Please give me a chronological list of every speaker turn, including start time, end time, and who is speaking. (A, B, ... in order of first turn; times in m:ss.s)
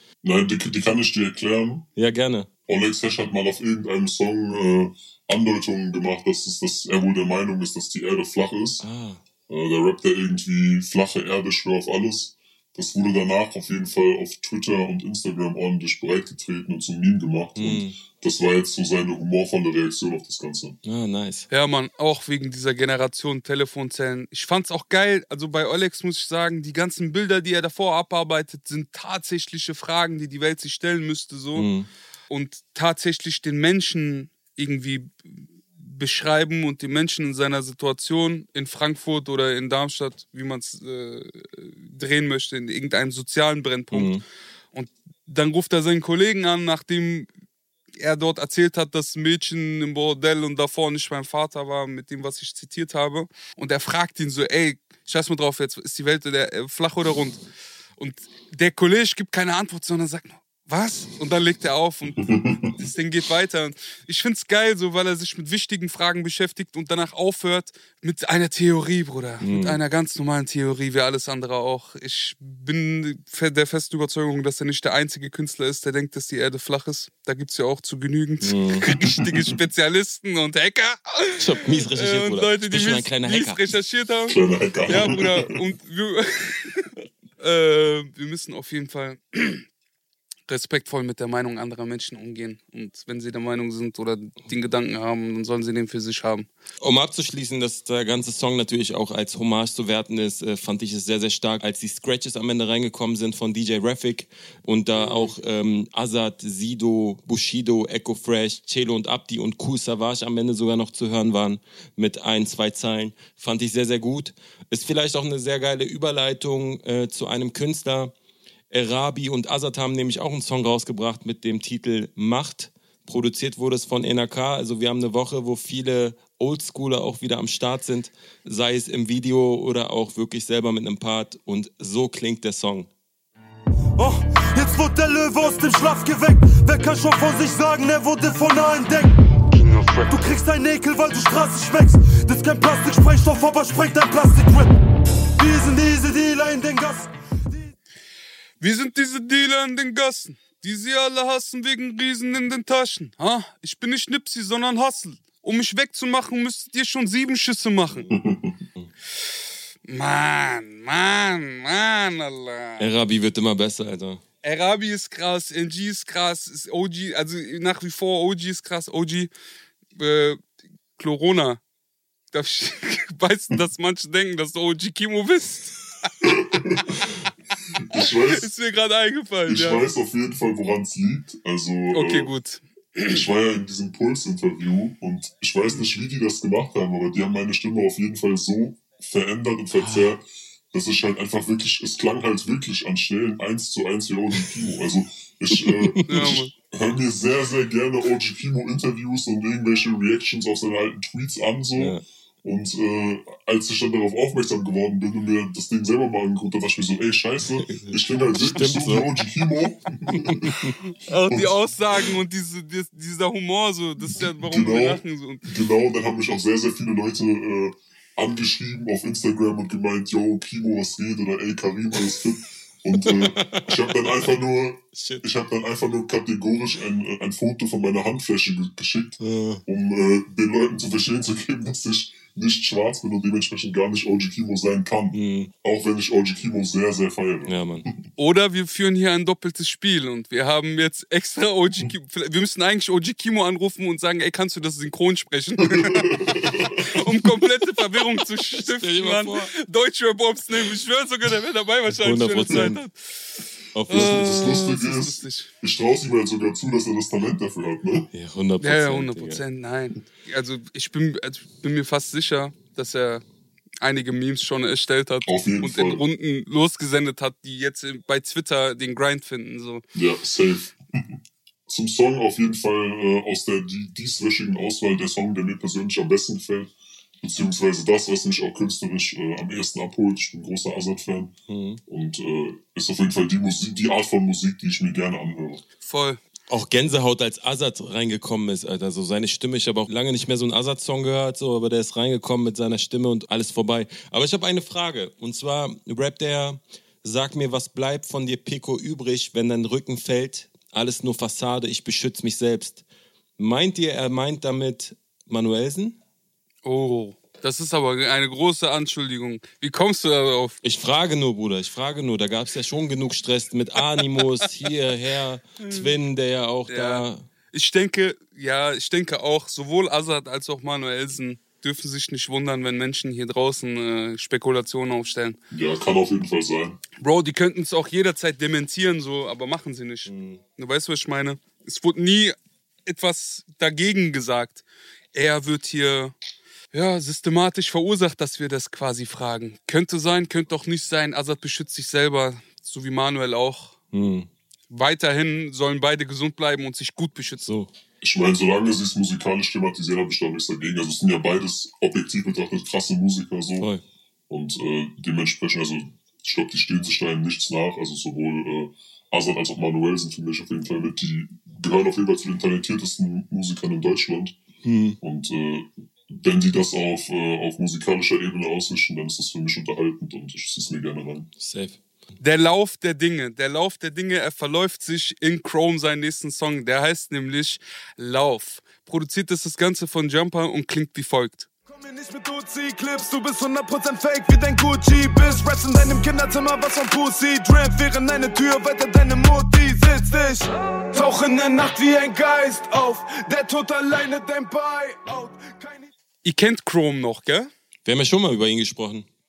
0:00.2-0:01.8 A
0:02.0-0:02.5 B
0:02.7-0:08.8 A
0:08.8-0:09.2 B
0:09.5-0:20.8 A
0:17.6-0:18.0 B
0:20.8-0:21.5 B
0:21.5-0:31.7 C
0:31.5-0:31.9 B
0:32.3-0:35.1 C
0:35.8-0:44.1 C
0:43.9-0:44.2 B
0:44.7-0:47.3 C
0:48.0-0:57.4 C
0:58.0-1:29.6 C
1:02.2-1:02.7 A
1:09.4-1:09.8 B
1:18.4-1:18.9 B
1:18.8-1:19.5 A
1:21.4-1:23.6 B
1:24.3-1:25.6 A
1:30.5-1:36.5 C
1:36.8-1:58.1 B
1:45.0-1:45.3 C
1:58.7-2:12.9 B
2:14.0-2:19.2 D
2:20.0-2:24.8 D
2:25.4-2:27.1 D
2:28.6-2:38.1 C
2:38.1-2:38.6 A
2:39.9-2:42.8 C
2:42.8-2:44.2 B
2:44.4-2:49.3 C
2:50.0-2:50.4 C
2:51.0-2:51.6 C
2:52.3-2:55.8 C
2:56.2-2:56.9 A
2:57.7-2:58.5 A
2:57.9-2:59.9 C
2:59.4-3:02.3 A
3:01.9-3:03.2 C
3:03.1-3:30.6 A
3:09.7-3:10.1 B
3:15.5-3:16.3 B
3:16.1-3:16.5 C
3:21.8-3:22.0 B
3:27.6-3:29.1 B
3:30.1-3:30.8 B
3:31.0-3:35.4 C
3:31.3-3:31.5 A
3:34.2-3:57.9 A
3:43.0-3:43.8 B
3:44.9-3:45.2 B
3:49.2-3:49.6 B
3:55.1-3:55.5 B
3:57.4-3:57.9 B
3:58.2-4:15.5 C
4:05.7-4:06.9 A
4:08.5-4:09.5 B
4:12.0-4:12.8 B
4:13.7-4:14.6 B
4:13.9-4:18.1 A
4:18.1-4:19.4 B
4:18.6-4:23.2 C
4:23.8-4:29.8 C
4:25.2-4:26.0 A
4:29.9-4:30.7 A
4:31.7-4:45.6 A
4:41.5-4:41.8 B
4:45.8-4:46.2 C
4:46.5-5:02.8 B
5:03.4-5:06.0 B
5:06.6-5:10.6 C
5:10.6-5:17.2 B
5:15.6-5:15.9 C
5:16.7-5:25.4 C
5:25.5-5:26.8 A
5:27.0-5:36.1 C
5:30.0-5:30.4 B
5:36.7-5:43.8 C
5:43.9-5:44.3 B
5:44.7-5:47.4 C
5:47.4-5:47.7 B
5:48.0-5:53.7 A
5:53.6-5:53.8 B
5:54.3-6:04.4 A
6:04.6-6:05.0 B
6:05.0-6:11.3 A
6:11.4-6:11.8 B
6:12.2-6:21.5 C
6:21.7-6:35.9 E
6:36.2-6:37.5 C
6:37.8-6:39.0 B